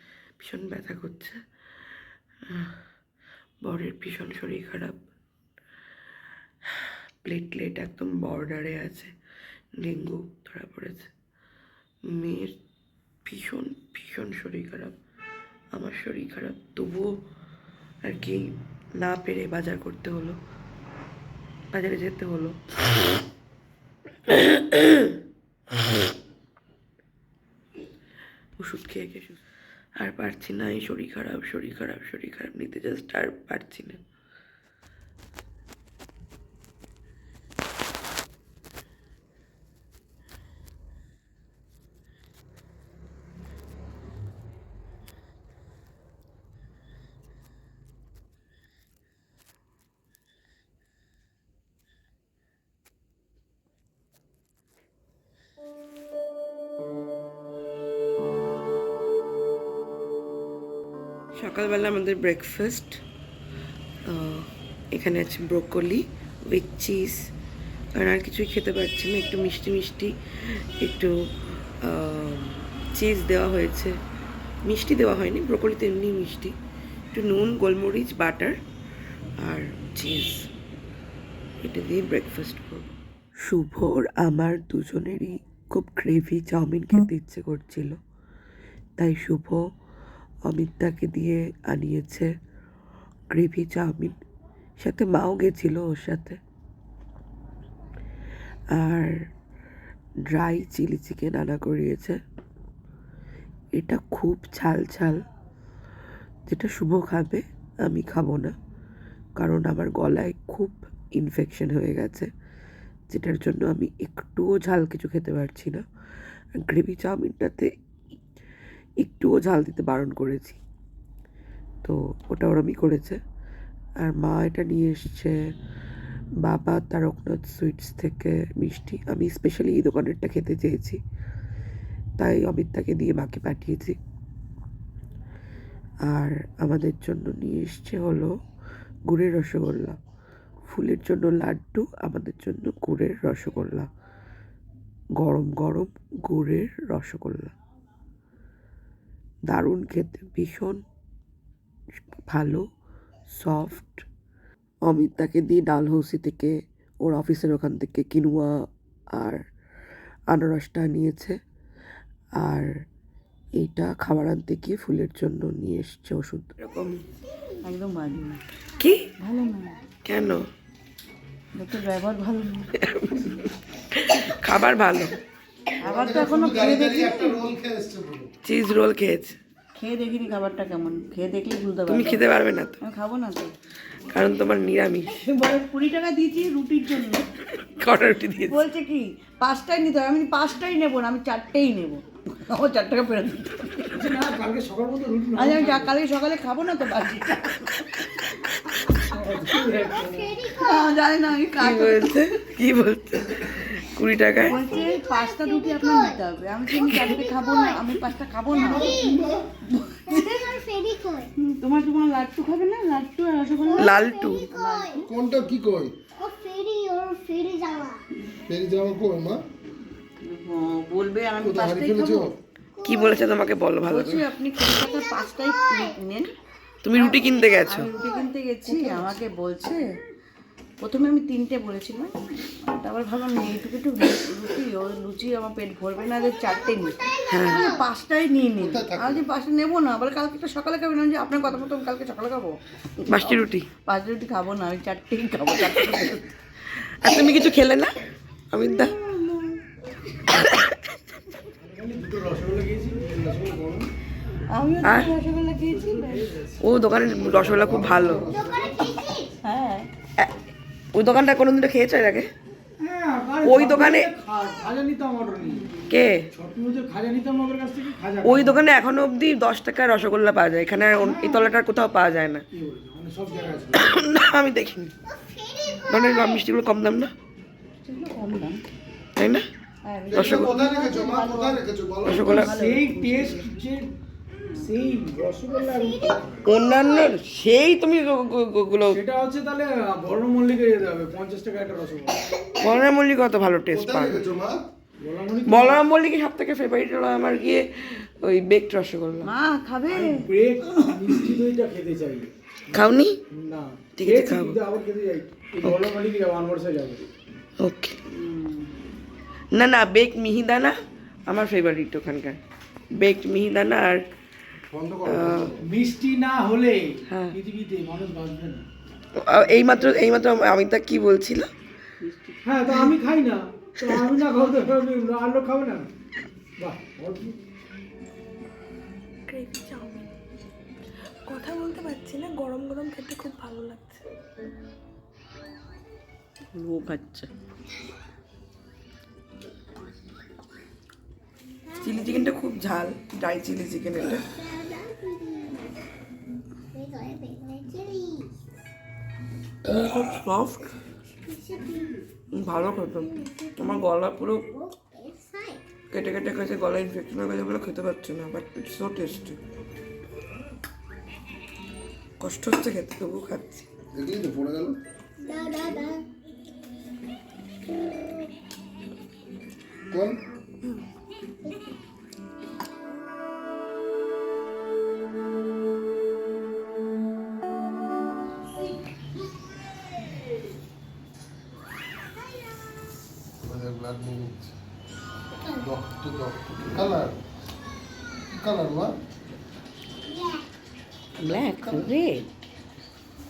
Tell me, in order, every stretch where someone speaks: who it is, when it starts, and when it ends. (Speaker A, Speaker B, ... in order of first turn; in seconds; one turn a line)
Speaker A: 0.4-1.4
Speaker A: 3.6-5.0
Speaker A: 7.2-9.1
Speaker A: 9.8-11.1
Speaker A: 12.1-12.6
Speaker A: 13.2-15.0
Speaker A: 15.8-17.1
Speaker A: 18.1-20.4
Speaker A: 21.7-22.6
Speaker A: 24.3-25.1
Speaker A: 28.6-29.4
Speaker A: 30.0-34.0
Speaker A: 61.4-63.0
Speaker A: 64.1-67.2
Speaker A: 68.0-70.1
Speaker A: 70.8-71.1
Speaker A: 71.8-74.0
Speaker A: 74.7-76.6
Speaker A: 77.1-78.6
Speaker A: 79.5-80.5
Speaker A: 81.6-82.9
Speaker A: 83.4-88.0
Speaker A: 89.0-89.7
Speaker A: 90.5-92.3
Speaker A: 93.3-94.2
Speaker A: 94.8-96.4
Speaker A: 98.8-99.1
Speaker A: 100.3-102.2
Speaker A: 103.8-105.2
Speaker A: 106.5-108.5
Speaker A: 109.4-112.3
Speaker A: 113.1-115.8
Speaker A: 116.6-117.7
Speaker A: 119.0-120.6
Speaker A: 121.8-123.2
Speaker A: 124.0-125.4
Speaker A: 126.4-131.0
Speaker A: 132.2-134.0
Speaker A: 136.1-138.3
Speaker A: 139.1-140.0
Speaker A: 140.7-143.9
Speaker A: 145.2-147.5
Speaker A: 149.5-150.8
Speaker A: 152.3-152.6
Speaker A: 153.4-154.1
Speaker A: 154.9-158.6
Speaker A: 160.3-161.4
Speaker A: 162.4-162.7
Speaker A: 163.6-167.0
Speaker B: 167.6-168.4
Speaker B: 169.2-169.8
Speaker A: 170.1-170.4
Speaker B: 171.6-172.7
Speaker A: 172.8-173.4
Speaker A: 173.9-175.1
Speaker B: 175.8-177.4
Speaker C: 175.8-178.3
Speaker A: 178.4-179.4
Speaker B: 179.8-182.2
Speaker A: 181.9-182.8
Speaker B: 182.8-183.5
Speaker A: 184.1-185.2
Speaker B: 185.1-187.3
Speaker A: 187.6-188.6
Speaker B: 188.5-194.0
Speaker D: 193.9-195.9
Speaker B: 195.3-197.7
Speaker D: 199.0-200.4
Speaker E: 200.0-200.8
Speaker B: 200.5-202.2
Speaker A: 201.6-204.6
Speaker B: 204.4-209.1
Speaker E: 204.8-205.5
Speaker C: 208.5-209.5
Speaker E: 208.7-209.2
Speaker B: 209.8-210.6
Speaker E: 210.2-211.3
Speaker B: 211.4-215.1
Speaker A: 213.8-214.5
Speaker E: 214.4-214.8
Speaker C: 215.0-215.9
Speaker E: 216.2-218.0
Speaker C: 218.5-219.4
Speaker B: 220.2-222.3
Speaker C: 221.4-222.3
Speaker A: 222.8-224.2
Speaker B: 223.9-226.3
Speaker A: 226.8-227.9
Speaker B: 227.7-229.8
Speaker B: 230.8-243.3
Speaker A: 237.3-237.7
Speaker C: 238.6-239.3
Speaker A: 243.1-243.7
Speaker B: 243.9-246.3
Speaker A: 247.0-247.9
Speaker A: 248.5-248.9
Speaker B: 249.0-249.5
Speaker A: 250.3-250.8
Speaker D: 251.7-253.9
Speaker B: 254.5-256.3
Speaker A: 254.8-255.1
Speaker D: 255.7-258.2
Speaker A: 256.6-259.0
Speaker C: 257.5-258.6
Speaker E: 258.4-259.3
Speaker B: 259.4-259.9
Speaker A: 260.9-262.3
Speaker D: 262.8-265.8
Speaker A: 263.4-264.1
Speaker A: 265.9-266.2
Speaker D: 266.3-268.6
Speaker A: 268.2-272.4
Speaker D: 271.0-271.4
Speaker D: 272.5-274.0
Speaker A: 273.7-274.9
Speaker A: 275.9-277.1
Speaker B: 277.9-278.6
Speaker A: 279.2-279.4
Speaker B: 279.9-281.6
Speaker C: 280.1-282.4
Speaker A: 280.1-280.6
Speaker A: 282.1-282.5
Speaker B: 282.2-283.5
Speaker D: 282.4-283.9
Speaker D: 284.5-286.4
Speaker A: 286.4-289.0
Speaker D: 288.9-292.2
Speaker A: 292.6-294.2
Speaker C: 293.7-294.7
Speaker D: 295.0-295.8
Speaker A: 295.5-299.3
Speaker B: 299.2-300.8
Speaker D: 299.9-302.3
Speaker A: 302.7-303.2
Speaker D: 303.3-307.1
Speaker A: 304.0-304.6
Speaker A: 307.6-308.0
Speaker B: 308.2-308.6
Speaker A: 309.5-310.8
Speaker A: 311.3-312.4
Speaker A: 312.9-314.0
Speaker C: 314.7-315.6
Speaker A: 315.1-315.5
Speaker D: 315.6-318.6
Speaker A: 317.1-317.4
Speaker A: 319.2-321.5
Speaker B: 322.0-322.4
Speaker D: 322.4-325.9
Speaker D: 326.6-327.4
Speaker A: 329.3-329.9
Speaker A: 331.3-333.9
Speaker B: 336.5-337.3
Speaker A: 341.8-344.3
Speaker E: 344.4-345.7
Speaker E: 346.7-348.3
Speaker A: 349.7-350.7
Speaker E: 351.3-351.9
Speaker A: 352.3-354.7
Speaker E: 354.9-355.6
Speaker A: 355.9-359.4
Speaker A: 362.2-363.7
Speaker C: 363.9-364.8
Speaker E: 365.2-366.0
Speaker C: 369.9-370.2
Speaker C: 383.4-384.6
Speaker C: 385.6-387.2
Speaker C: 388.3-388.9
Speaker B: 391.2-392.3